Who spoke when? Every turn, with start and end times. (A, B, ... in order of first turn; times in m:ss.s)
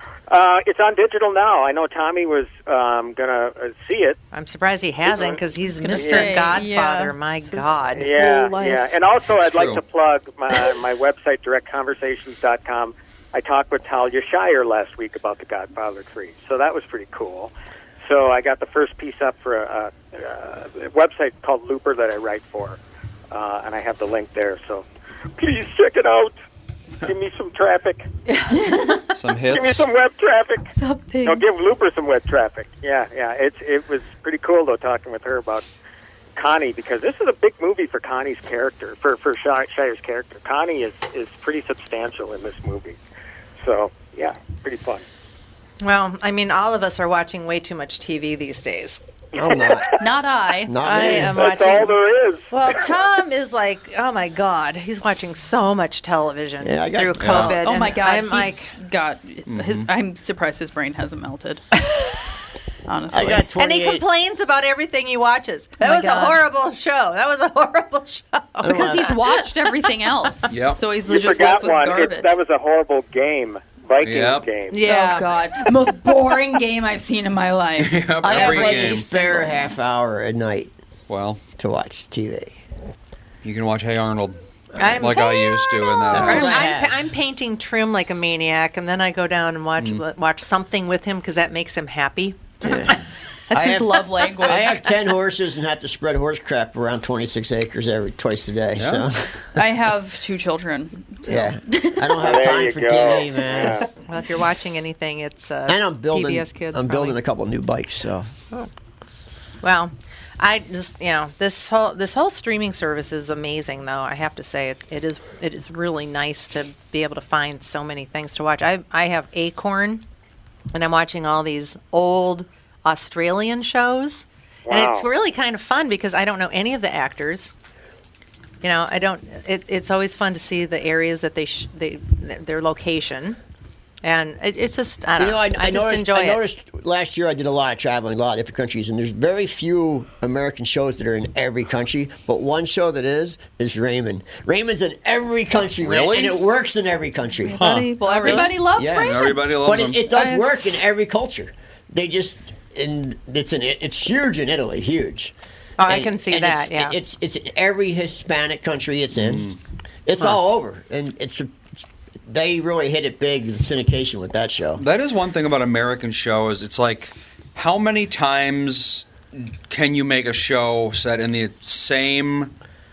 0:00.3-0:04.2 A
0:04.3-0:08.1 B
0:05.1-0:05.4 A
0:05.6-0:08.9 C
0:06.0-0:06.4 A
0:08.0-0:17.5 A
0:09.4-0:09.8 D
0:18.0-0:22.8 A
0:23.3-0:24.9 A
0:25.4-0:26.3 A
0:27.0-0:28.1 A
0:28.3-0:29.1 C
0:29.1-0:29.8 D
0:29.5-0:30.7 A
0:30.8-0:31.4 C
0:31.2-0:35.6 A
0:36.4-0:43.0 A
0:43.6-0:45.0 A
0:45.8-0:49.0 B
0:49.4-0:49.9 E
0:49.4-0:50.0 A
0:50.0-0:50.7 C
0:50.7-0:51.5 E
0:50.8-0:52.0 B
0:51.4-0:52.8 A
0:52.5-0:58.8 B
0:56.6-0:57.5 E
0:57.2-0:57.5 D
0:57.3-1:01.7 C
0:59.5-0:59.9 D
1:02.9-1:03.4 C
1:03.1-1:04.0 E
1:03.6-1:09.7 B
1:05.8-1:06.4 C
1:08.6-1:09.1 E
1:08.7-1:12.3 C
1:10.5-1:10.8 D
1:11.1-1:14.8 A
1:14.0-1:14.5 D
1:14.7-1:16.1 B
1:14.8-1:19.6 C
1:17.8-1:19.1 D
1:18.2-1:20.7 E
1:18.4-1:19.5 B
1:21.1-1:21.4 D
1:21.6-1:22.6 E
1:23.4-1:26.7 D
1:24.8-1:33.0 B
1:26.1-1:27.0 E
1:32.6-1:33.0 E
1:33.5-1:34.9 C
1:33.5-1:39.5 E
1:34.4-1:34.7 B
1:38.8-1:39.1 D
1:39.6-1:42.2 C
1:41.3-1:43.8 E
1:42.2-1:43.8 A
1:43.6-1:47.2 B
1:45.7-1:48.3 E
1:49.6-2:00.0 B
2:00.7-2:07.5 B
2:04.7-2:05.1 A
2:08.6-2:13.4 B
2:14.0-2:16.4 B
2:15.2-2:27.6 E
2:25.8-2:26.5 D
2:27.4-2:29.4 C
2:27.6-2:27.9 D
2:28.0-2:28.6 B
2:28.2-2:35.3 E
2:29.0-2:30.0 D
2:30.1-2:30.8 B
2:35.8-2:37.0 B
2:35.9-2:39.5 E
2:39.1-2:39.6 D
2:40.1-2:44.8 E
2:44.8-2:52.5 D